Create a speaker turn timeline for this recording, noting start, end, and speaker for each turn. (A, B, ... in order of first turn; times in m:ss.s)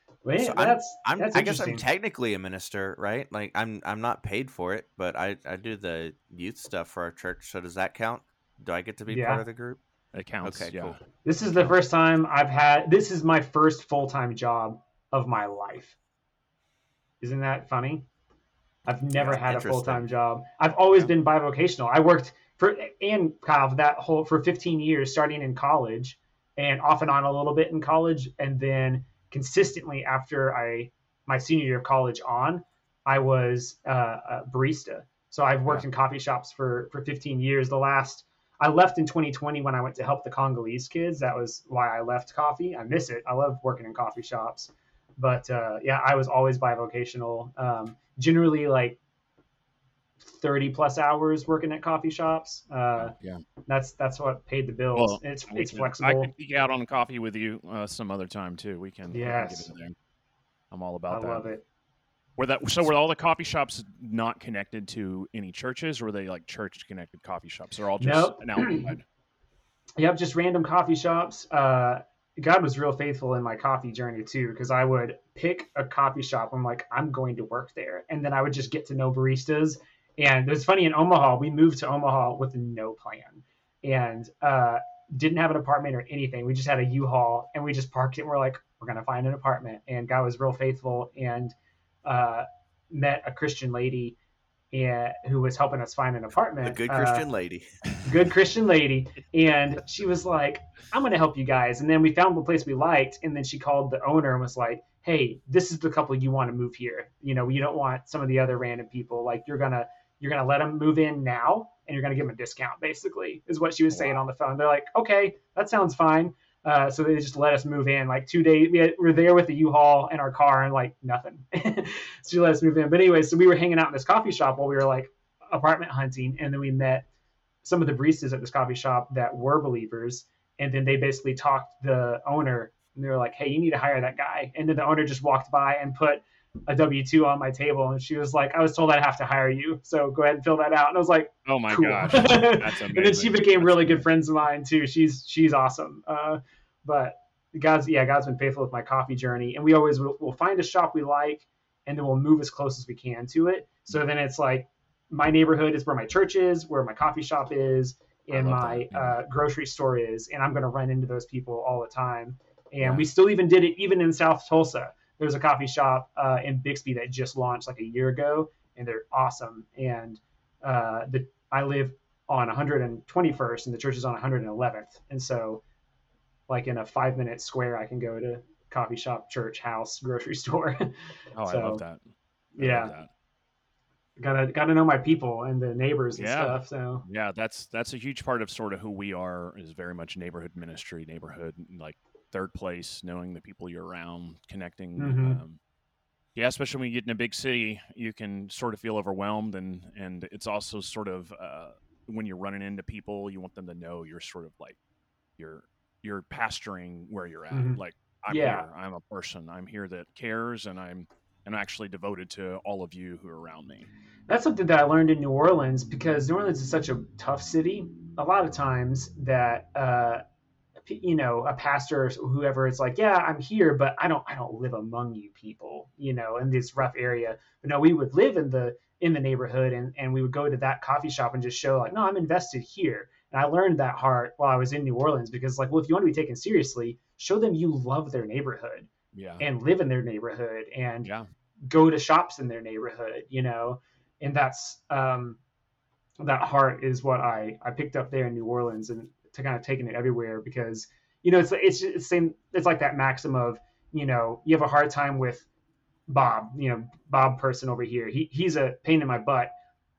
0:00.2-0:01.8 A
0:00.4-0:09.8 B
0:09.1-0:09.4 A
0:10.1-0:11.0 C
0:10.4-0:11.0 B
0:11.2-0:16.0 A
0:17.2-0:18.1 A
0:18.9-0:49.0 A
0:19.1-0:20.0 B
0:50.2-0:53.1 A
0:53.0-0:53.4 C
0:53.7-0:56.3 A
0:55.0-1:00.0 C
0:59.1-0:59.7 A
1:00.7-1:01.5 C
1:01.1-1:01.6 A
1:02.4-1:09.0 C
1:08.0-1:08.9 A
1:10.0-1:34.2 A
1:34.7-1:37.3 A
1:36.6-1:37.7 B
1:38.0-2:07.1 A
1:53.9-1:54.2 C
2:07.6-2:55.6 A
2:21.5-2:24.0 C
2:38.3-2:39.2 C
2:42.8-2:43.1 C
2:56.5-3:00.9 A
3:01.4-3:02.0 C
3:01.4-3:01.8 A
3:02.6-3:02.9 A
3:02.6-3:03.1 C
3:04.2-3:07.0 A
3:06.2-3:15.6 C
3:15.0-3:15.4 A
3:16.4-3:24.8 C
3:25.4-3:33.9 C
3:27.5-3:28.6 A
3:34.3-3:40.2 A
3:40.9-3:58.9 A
3:59.1-3:59.4 C
3:59.4-4:01.1 A
4:01.7-4:05.4 A
4:06.2-4:15.5 A
4:16.1-4:19.5 A